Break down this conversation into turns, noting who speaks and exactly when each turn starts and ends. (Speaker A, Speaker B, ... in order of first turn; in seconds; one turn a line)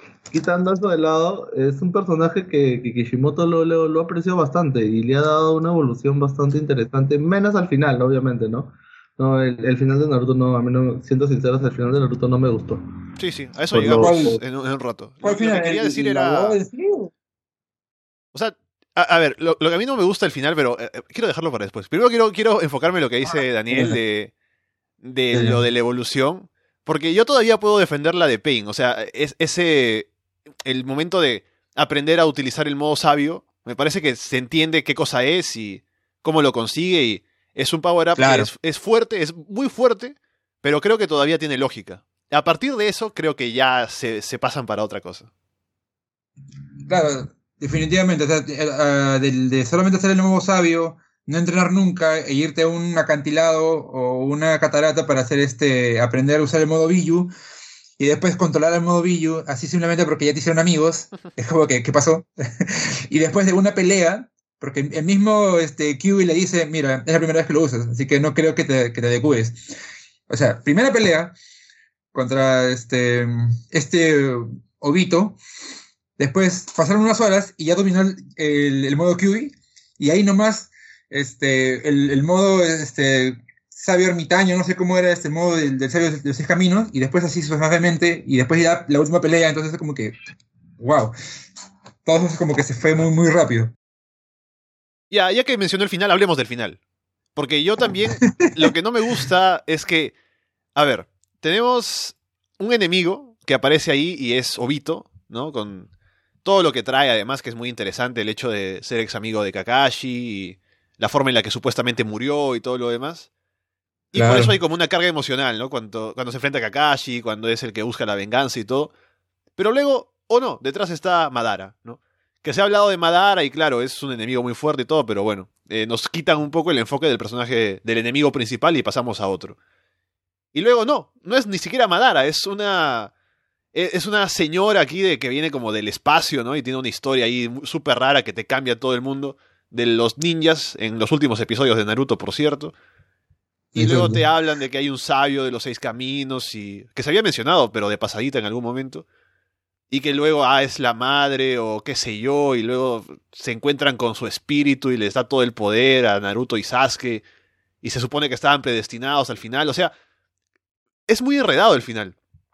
Speaker A: 0.3-12.8
Speaker B: 13.2-16.6
Speaker A: 13.7-14.3
Speaker C: 14.0-14.4
Speaker C: 15.2-17.1
Speaker B: 18.3-24.3
Speaker C: 23.3-24.0
Speaker B: 25.0-30.1
Speaker C: 25.3-25.6
Speaker B: 30.6-45.3
Speaker C: 38.2-38.5
Speaker C: 46.9-57.3
Speaker C: 58.0-69.7
Speaker C: 70.3-71.3
Speaker C: 72.1-75.4
Speaker C: 76.2-90.1
Speaker C: 90.8-91.1
Speaker C: 92.0-93.7
Speaker B: 95.1-96.8
Speaker B: 97.3-100.1
Speaker C: 98.4-99.2
Speaker B: 100.8-105.9
Speaker B: 106.4-113.3
Speaker B: 114.1-118.9
Speaker C: 114.1-114.6
Speaker B: 119.6-129.6
Speaker B: 130.5-133.1
Speaker B: 133.7-142.7
Speaker C: 143.7-144.2
Speaker B: 143.8-149.0
Speaker B: 149.9-157.2
Speaker B: 157.8-159.9
Speaker B: 161.1-162.2